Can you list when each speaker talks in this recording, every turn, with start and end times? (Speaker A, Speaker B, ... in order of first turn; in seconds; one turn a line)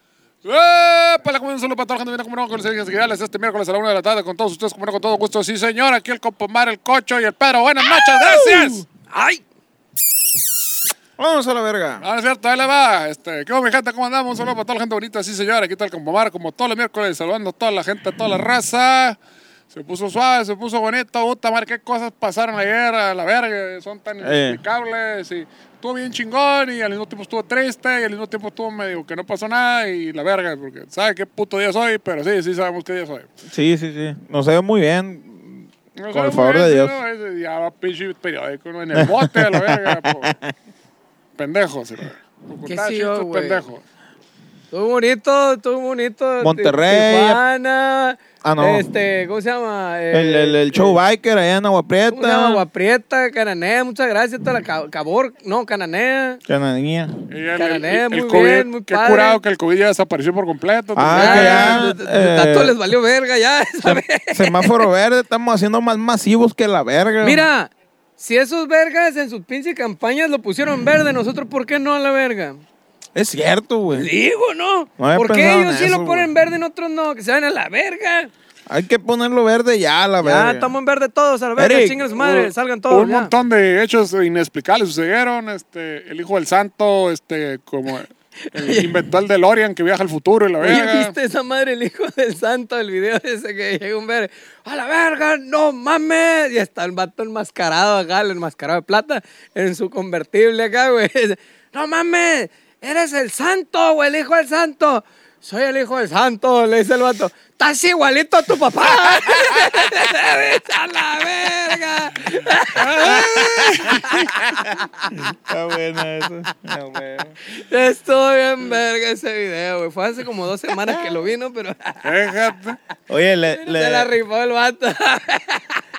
Speaker A: 0.4-8.8
Speaker B: 9.1-9.4
Speaker C: 11.2-12.0
Speaker A: 12.0-19.2
Speaker A: 19.7-33.3
Speaker C: 24.2-24.6
Speaker C: 33.5-37.0
Speaker A: 36.0-40.3
Speaker C: 38.9-40.5
Speaker A: 41.4-43.8
Speaker B: 42.6-43.6
Speaker B: 44.7-51.0
Speaker C: 46.4-47.4
Speaker C: 48.4-48.9
Speaker C: 50.1-52.6
Speaker B: 52.1-56.4
Speaker C: 56.5-57.2
Speaker A: 57.3-61.9
Speaker B: 57.6-59.4
Speaker C: 61.0-62.7
Speaker B: 61.1-64.8
Speaker C: 63.8-67.5
Speaker B: 67.2-72.6
Speaker C: 73.1-74.1
Speaker B: 73.9-78.3
Speaker C: 75.0-76.3
Speaker C: 78.7-80.7
Speaker B: 80.2-83.3
Speaker C: 81.5-82.0
Speaker A: 82.2-91.1
Speaker B: 88.5-88.9
Speaker B: 90.6-115.1
Speaker C: 109.0-109.9
Speaker A: 112.8-114.2
Speaker C: 113.0-117.4
Speaker B: 117.5-122.1
Speaker A: 122.0-122.8
Speaker C: 123.1-124.1
Speaker B: 123.5-125.8